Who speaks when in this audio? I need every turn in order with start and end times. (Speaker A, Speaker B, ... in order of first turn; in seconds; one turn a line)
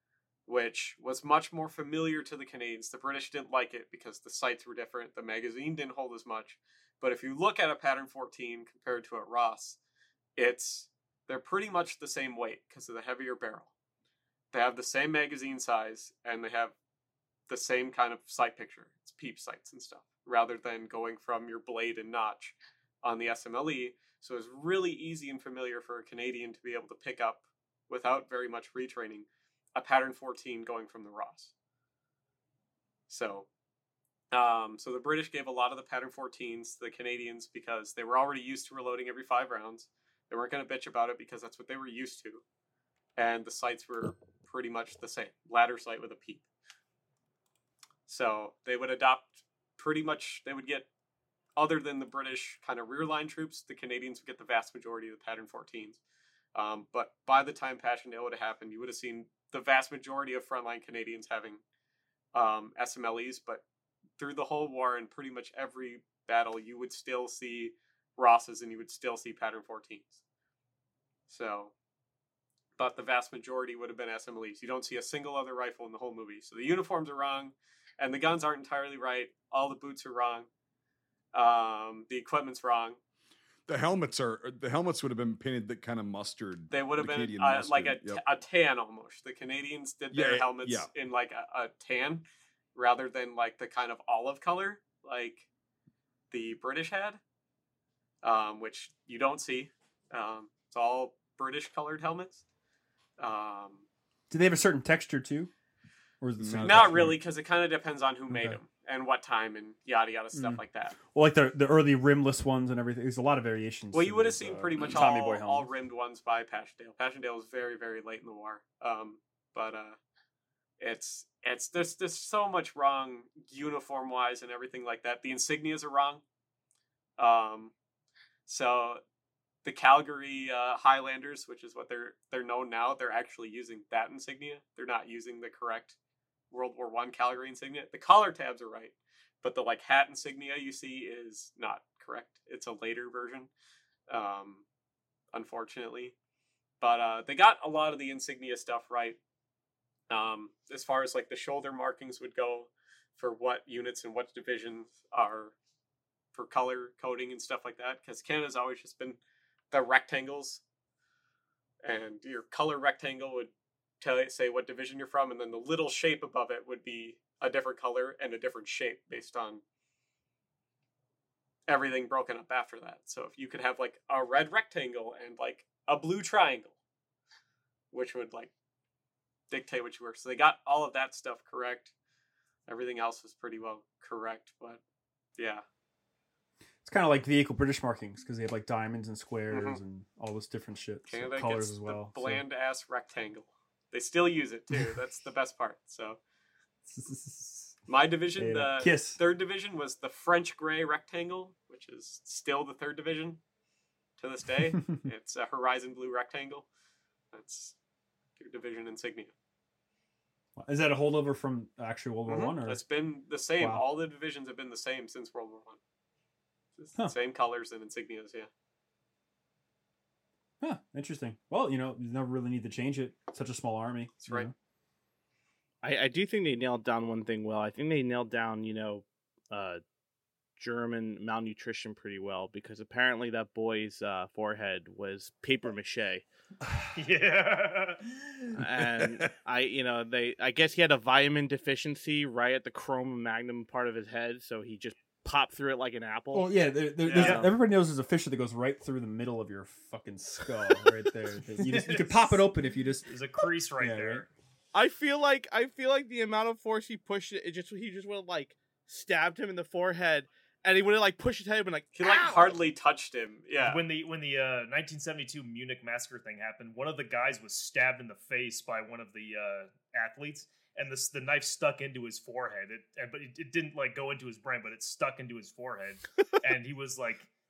Speaker A: 0.5-9.8
Speaker A: 10.4-13.7
Speaker A: 14.5-16.7
Speaker A: 17.5-31.5
Speaker A: 33.1-33.5
Speaker A: 34.3-42.4
Speaker A: 43.2-46.4
Speaker A: 48.1-50.9
Speaker A: 51.6-56.0
Speaker A: 56.5-61.6
Speaker A: 62.3-63.6
Speaker A: 64.2-70.2
Speaker A: 71.3-71.7
Speaker A: 72.8-80.5
Speaker A: 81.3-83.0
Speaker B: 83.7-88.2
Speaker A: 86.7-95.5
Speaker B: 90.1-90.9
Speaker A: 96.3-97.2
Speaker A: 98.2-102.4
Speaker A: 103.2-103.8
Speaker C: 104.3-105.5
Speaker C: 106.2-107.1
Speaker B: 106.4-107.1
Speaker A: 106.6-111.0
Speaker C: 108.3-108.6
Speaker C: 110.3-115.7
Speaker A: 113.9-120.0
Speaker A: 120.8-126.2
Speaker A: 127.2-127.7
Speaker A: 128.5-129.0
Speaker A: 129.6-135.9
Speaker A: 136.5-143.5
Speaker A: 144.1-144.6
Speaker A: 145.3-146.1
Speaker A: 146.8-149.2
Speaker A: 150.1-155.5
Speaker A: 156.3-159.2
Speaker A: 159.7-160.6
Speaker A: 161.8-169.6
Speaker A: 171.7-176.7
Speaker A: 177.9-178.5
Speaker A: 179.5-181.9
Speaker A: 182.7-184.8
Speaker A: 185.4-185.6
Speaker C: 186.8-192.4
Speaker A: 189.5-189.8
Speaker A: 191.1-196.2
Speaker C: 196.9-197.8
Speaker A: 197.9-203.4
Speaker C: 198.4-199.2
Speaker A: 204.2-206.7
Speaker A: 207.3-207.7
Speaker A: 208.4-209.3
Speaker C: 210.6-212.8
Speaker A: 212.3-215.8
Speaker A: 216.8-218.5
Speaker C: 220.6-224.5
Speaker D: 225.8-229.8
Speaker D: 230.6-236.2
Speaker C: 236.6-236.9
Speaker E: 236.9-238.6
Speaker D: 238.5-247.5
Speaker B: 239.0-239.3
Speaker C: 246.3-253.1
Speaker A: 247.0-247.4
Speaker E: 251.6-252.4
Speaker E: 253.1-254.3
Speaker C: 253.8-254.2
Speaker D: 254.7-262.6
Speaker A: 261.9-263.9
Speaker E: 263.6-277.3